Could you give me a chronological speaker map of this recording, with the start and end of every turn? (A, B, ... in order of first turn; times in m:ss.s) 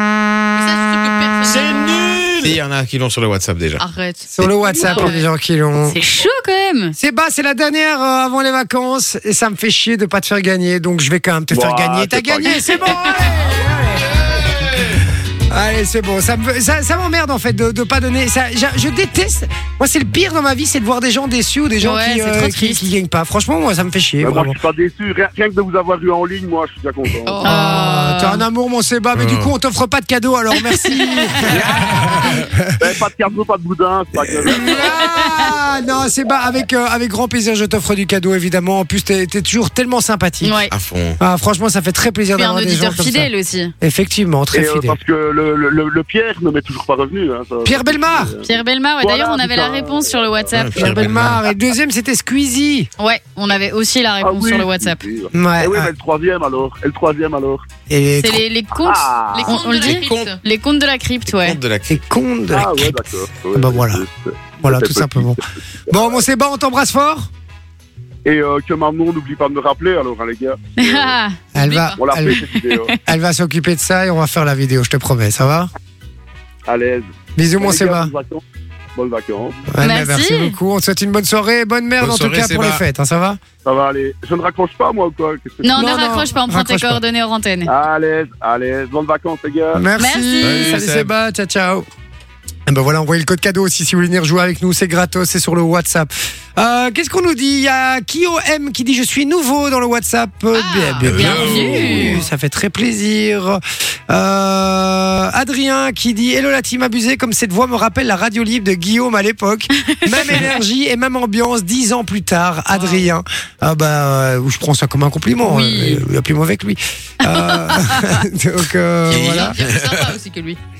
0:00.5-0:02.1 A
0:01.5-0:03.8 B
0:03.8-0:05.2 A
0:04.3-0:06.0 C
0:05.8-0:06.9 D
0:07.0-0:14.7 C
0:11.5-0:12.9 E
0:14.2-0:15.0 B
0:15.5-0:24.6 C
0:21.8-0:22.8 D
0:24.2-0:27.5 E
0:27.2-0:28.1 A
0:27.4-0:28.4 D
0:27.4-0:32.7 C
0:29.2-0:29.5 B
0:30.6-0:31.6 D
0:31.5-0:31.9 E
0:32.8-0:35.2 E
0:34.3-0:40.6 C
0:34.5-0:35.5 D
0:40.4-0:40.7 D
0:40.7-0:41.2 B
0:41.2-0:45.0 C
0:42.4-0:43.7 D
0:44.5-0:48.4 E
0:47.6-0:48.3 C
0:48.4-0:50.8 D
0:49.0-0:51.0 E
0:50.5-0:51.4 B
0:50.7-0:52.9 C
0:53.0-0:55.0 D
0:54.2-0:57.6 E
0:55.3-0:55.9 C
0:57.9-0:58.4 C
0:58.2-1:01.6 D
0:58.8-0:59.6 E
0:59.3-1:00.4 A
0:59.8-1:00.4 B
1:01.3-1:02.0 B
1:01.9-1:04.0 C
1:02.5-1:06.2 E
1:04.6-1:07.3 C
1:08.2-1:11.2 E
1:10.8-1:12.7 D
1:11.5-1:12.4 C
1:11.6-1:12.0 A
1:12.0-1:13.0 E
1:12.9-1:15.7 C
1:16.6-1:18.4 E
1:17.4-1:18.1 C
1:18.9-1:19.7 E
1:19.7-1:23.4 C
1:19.8-1:20.5 D
1:22.0-1:22.8 B
1:23.6-1:25.9 E
1:25.6-1:27.7 D
1:25.7-1:27.0 C
1:27.6-1:29.9 E
1:29.7-1:31.9 C
1:30.0-1:30.8 D
1:30.4-1:31.1 B
1:32.7-1:59.6 C
1:40.5-1:42.2 A
1:41.0-1:42.0 B
1:41.1-1:42.2 D
1:49.8-1:50.4 D
1:52.7-1:53.1 A
1:55.4-1:56.0 D
1:57.2-1:58.2 D
1:59.1-2:00.1 B
1:59.1-2:00.6 A